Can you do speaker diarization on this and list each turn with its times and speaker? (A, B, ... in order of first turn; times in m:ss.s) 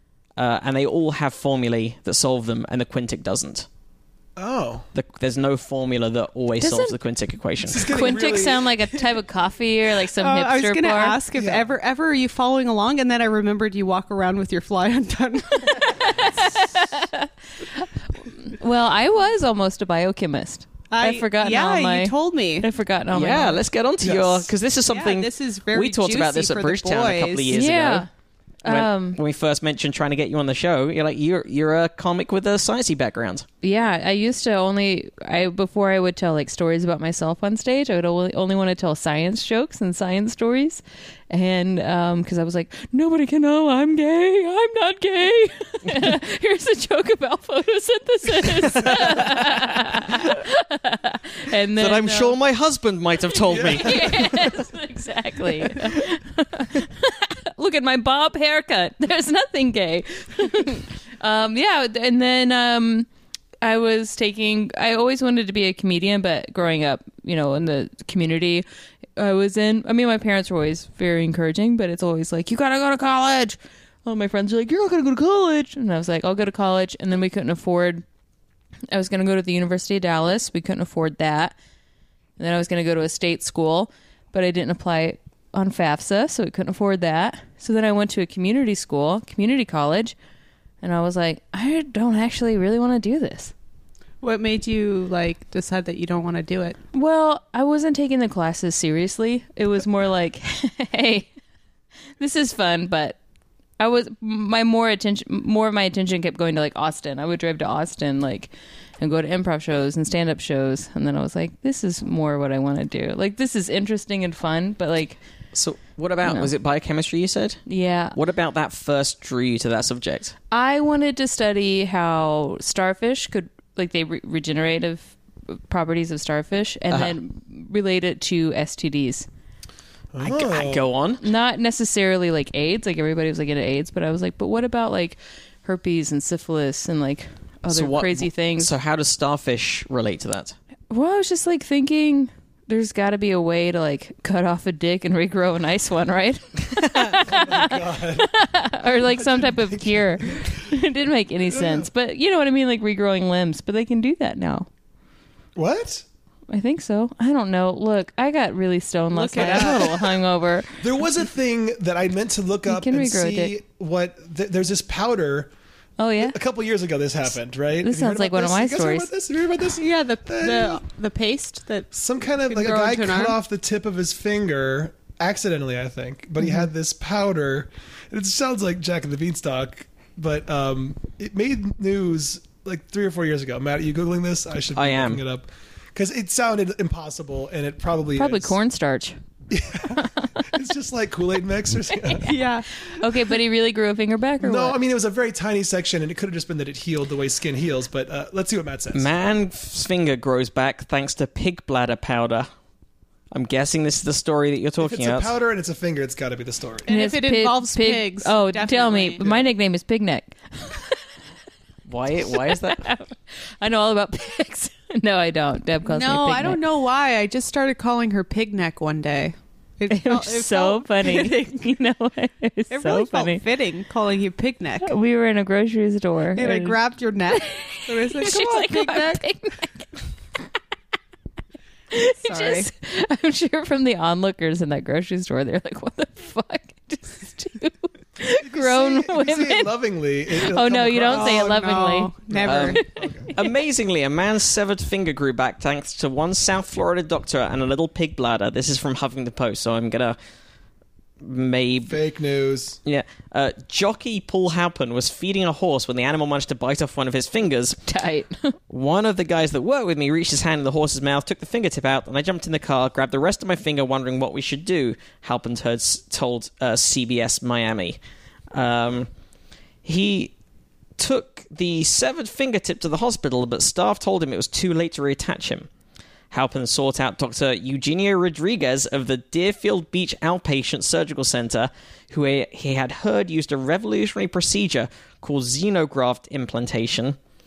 0:00.4-0:03.7 A
0:04.4-0:04.8 B
0:04.9-0:08.1 A
0:06.6-0:06.9 C
0:07.6-0:09.0 B
0:07.8-0:11.2 C
0:10.2-0:16.5 D
0:11.3-0:11.7 B
0:15.8-0:23.6 C
0:20.9-0:22.7 D
0:23.1-0:28.1 A
0:24.0-0:24.5 B
0:24.9-0:27.5 D
0:27.5-0:28.1 C
0:28.6-0:29.2 C
0:28.6-0:33.4 A
0:33.6-0:52.4 C
0:48.5-0:49.8 A
0:51.8-0:54.5 A
0:53.5-0:54.2 B
0:53.6-1:03.1 C
1:03.6-1:08.6 C
1:09.2-1:18.0 C
1:18.9-1:21.5 C
1:22.4-1:30.1 C
1:30.8-1:33.5 C
1:34.2-1:36.8 D
1:36.9-1:41.3 C
1:42.2-1:43.2 C
1:43.8-1:55.2 C
1:55.5-1:57.6 A
1:56.2-1:56.5 C
1:57.7-1:58.2 C
1:58.1-2:00.3 A
2:00.5-2:09.3 C
2:10.1-2:10.9 B
2:10.2-2:11.2 A
2:11.2-2:18.7 C
2:17.7-2:20.5 A
2:20.9-2:34.7 C
2:27.2-2:28.3 B
2:29.1-2:30.6 B
2:31.5-2:31.9 B
2:35.6-2:36.0 B
2:36.5-2:40.8 C
2:39.1-2:40.0 D
2:39.3-2:40.2 B
2:40.8-2:45.5 B
2:42.6-2:43.5 C
2:46.0-2:46.4 C
2:46.2-2:50.8 B
2:47.8-2:49.1 C
2:49.8-2:53.4 D
2:51.9-3:08.6 B
3:04.7-3:05.2 A
3:08.2-3:09.2 C
3:09.5-3:12.3 B
3:10.0-3:10.3 C
3:12.1-3:14.8 C
3:12.2-3:13.0 D
3:14.4-3:19.1 B
3:18.9-3:22.5 A
3:23.3-3:25.3 A
3:24.8-3:26.9 B
3:26.8-3:29.3 D
3:26.9-3:31.0 C
3:31.9-3:32.9 A
3:32.2-3:36.6 C
3:35.8-3:41.6 D
3:39.9-3:43.4 C
3:42.7-3:44.9 D
3:44.8-3:46.8 C
3:46.4-3:49.2 D
3:47.3-3:50.0 C
3:51.9-3:59.7 C
3:52.2-3:52.7 D
3:58.4-4:03.3 B
4:00.3-4:03.5 C
4:01.1-4:02.8 D
4:02.4-4:02.8 A
4:03.3-4:10.2 A
4:11.2-4:12.0 A
4:11.8-4:12.8 B
4:12.8-4:17.8 A
4:17.9-4:18.6 C
4:18.7-4:28.0 A
4:28.5-4:29.1 A
4:29.8-4:30.3 A
4:31.0-4:35.7 A
4:36.3-4:47.2 A